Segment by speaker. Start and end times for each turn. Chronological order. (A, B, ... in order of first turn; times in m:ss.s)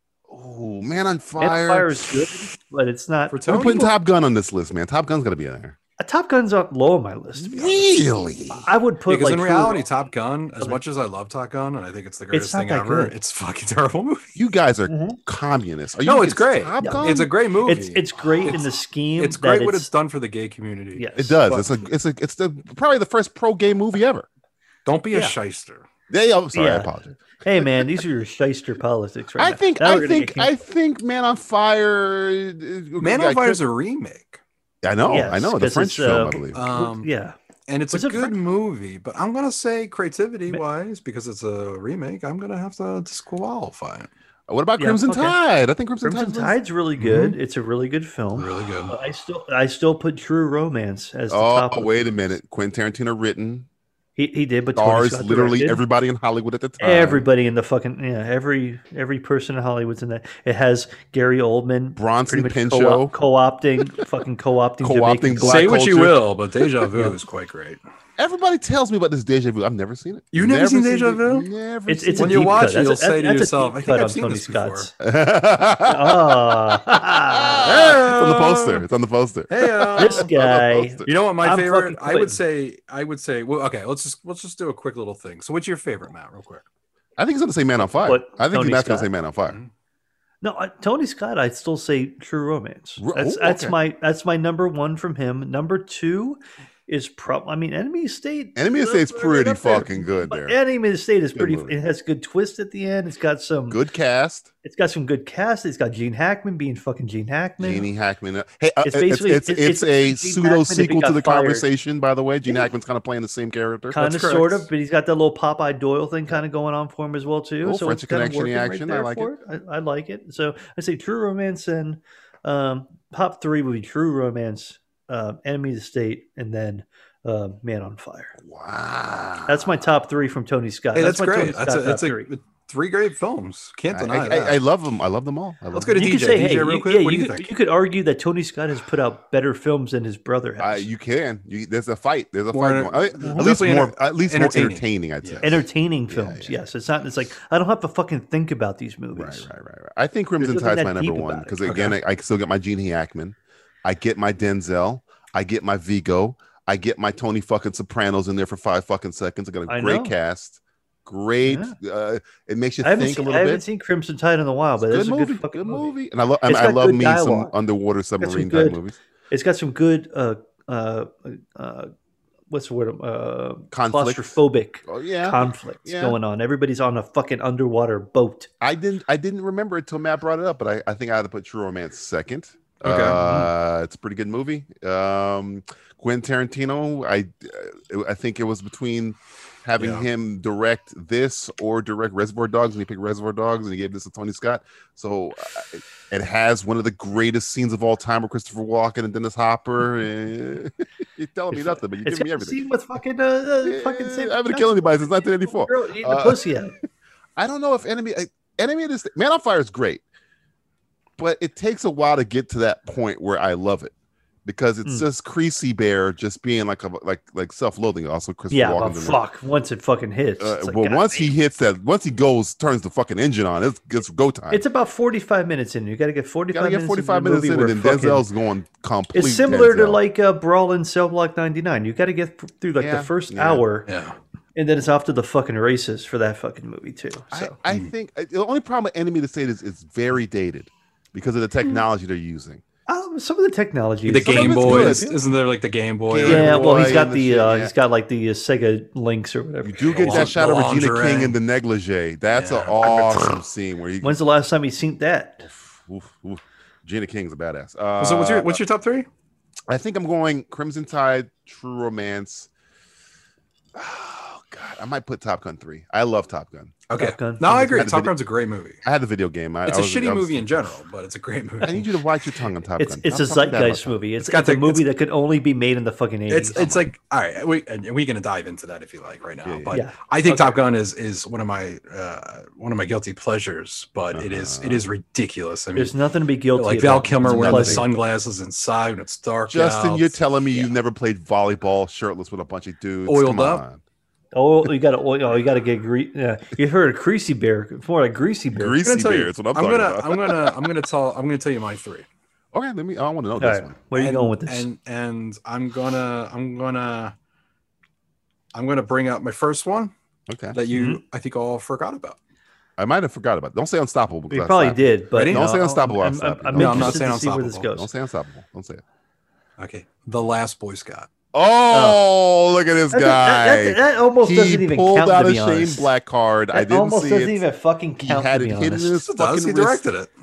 0:00.3-0:02.5 A
0:01.4-0:03.9 B
0:03.3-0:03.9 C
0:03.5-0:05.8 A
0:06.0-0:07.8 B
0:07.4-0:08.6 A
0:08.5-0:09.8 B
0:09.1-0:14.4 C
0:12.3-0:13.1 B
0:14.4-0:17.3 A
0:14.9-0:15.2 B
0:16.0-0:21.7 C
0:16.8-0:19.9 B
0:21.0-0:21.4 B
0:21.2-0:24.2 A
0:24.8-0:25.8 C
0:26.1-0:27.2 A
0:26.5-0:30.5 B
0:29.4-0:33.6 A
0:33.0-0:34.4 C
0:34.8-0:36.6 A
0:35.1-0:37.3 B
0:36.5-0:37.1 C
0:37.7-0:44.1 C
0:37.9-0:38.4 B
0:44.5-0:46.6 A
0:44.8-0:45.4 B
0:46.0-0:52.0 B
0:47.0-0:47.4 C
0:48.3-0:48.9 C
0:51.3-0:53.7 A
0:54.2-0:55.8 B
0:54.7-0:57.2 A
0:56.8-1:05.8 B
1:02.0-1:03.2 A
1:04.8-1:06.2 A
1:05.4-1:07.8 C
1:08.2-1:12.6 A
1:10.3-1:11.4 C
1:11.9-1:14.9 B
1:12.2-1:14.9 C
1:15.0-1:16.8 A
1:15.9-1:17.7 B
1:17.3-1:21.1 A
1:17.6-1:18.8 C
1:19.5-1:20.3 C
1:20.0-1:22.4 B
1:21.0-1:26.6 C
1:27.2-1:29.6 A
1:28.0-1:29.1 B
1:30.4-1:43.8 B
1:33.0-1:33.8 A
1:38.6-1:40.6 A
1:41.3-1:41.7 A
1:43.7-1:44.5 A
1:44.6-1:47.9 B
1:47.6-1:54.0 A
1:48.8-1:51.6 B
1:53.9-2:08.3 B
1:54.0-1:54.7 C
1:57.6-1:59.3 A
2:08.4-2:09.9 A
2:09.5-2:12.3 B
2:10.9-2:14.6 C
2:13.9-2:16.2 A
2:15.7-2:17.5 C
2:16.0-2:20.9 B
2:20.6-2:26.6 A
2:22.5-2:25.4 C
2:25.4-2:29.5 B
2:29.1-2:43.6 A
2:30.4-2:31.7 B
2:31.6-2:32.0 C
2:39.7-2:40.1 B
2:41.4-2:41.8 B
2:42.8-2:45.9 B
2:44.8-2:49.0 A
2:46.5-2:47.5 B
2:48.2-2:51.9 B
2:52.5-2:58.5 B
2:53.7-2:56.2 A
2:58.6-3:22.6 A
3:02.8-3:03.5 C
3:09.8-3:10.0 C
3:21.5-3:26.7 B
3:23.6-3:26.5 A
3:27.4-3:30.0 A
3:31.2-3:33.9 A
3:34.4-3:39.2 A
3:38.5-3:41.3 B
3:40.4-3:44.6 A
3:44.5-3:48.2 B
3:46.5-3:50.0 A
3:49.1-3:53.9 B
3:52.8-3:53.6 A
3:53.9-3:54.2 C
3:54.6-3:57.5 B
3:57.3-4:02.6 A
4:02.9-4:05.1 B
4:04.1-4:06.6 C
4:04.2-4:05.2 A
4:06.1-4:07.7 A
4:06.2-4:10.4 B
4:09.6-4:14.2 A
4:09.9-4:11.4 C
4:12.3-4:13.2 C
4:14.0-4:15.5 B
4:15.4-4:18.6 A
4:18.0-4:19.1 C
4:19.7-4:22.5 A
4:23.7-4:26.8 A
4:26.9-4:28.8 C
4:26.9-4:27.8 B
4:27.7-4:28.1 A
4:28.8-4:30.6 A
4:29.6-4:32.0 C
4:31.6-4:34.0 A
4:32.8-4:36.6 B
4:34.2-4:34.8 C
4:36.3-4:45.9 C
4:36.5-4:36.9 A
4:39.4-4:39.8 A
4:39.7-4:40.6 B
4:44.1-4:44.8 A
4:45.7-4:47.8 B
4:46.6-4:50.7 C
4:47.2-4:47.9 A
4:49.5-4:53.8 A
4:53.0-4:53.6 C
4:54.3-4:58.8 B
4:58.5-5:00.5 A
4:58.8-5:02.0 C
5:02.5-5:03.8 A
5:03.4-5:04.7 B
5:03.9-5:07.1 C
5:08.5-5:09.9 C
5:10.3-5:10.6 A
5:10.5-5:12.2 C
5:10.7-5:11.0 B
5:12.8-5:17.0 A
5:14.3-5:17.9 B
5:15.2-5:15.4 C
5:16.5-5:17.7 C
5:17.7-5:18.8 A
5:19.6-5:21.1 C
5:21.3-5:27.4 A
5:21.7-5:22.0 B
5:22.9-5:25.9 B
5:26.5-5:29.0 B
5:28.0-5:29.8 A
5:29.1-5:30.1 C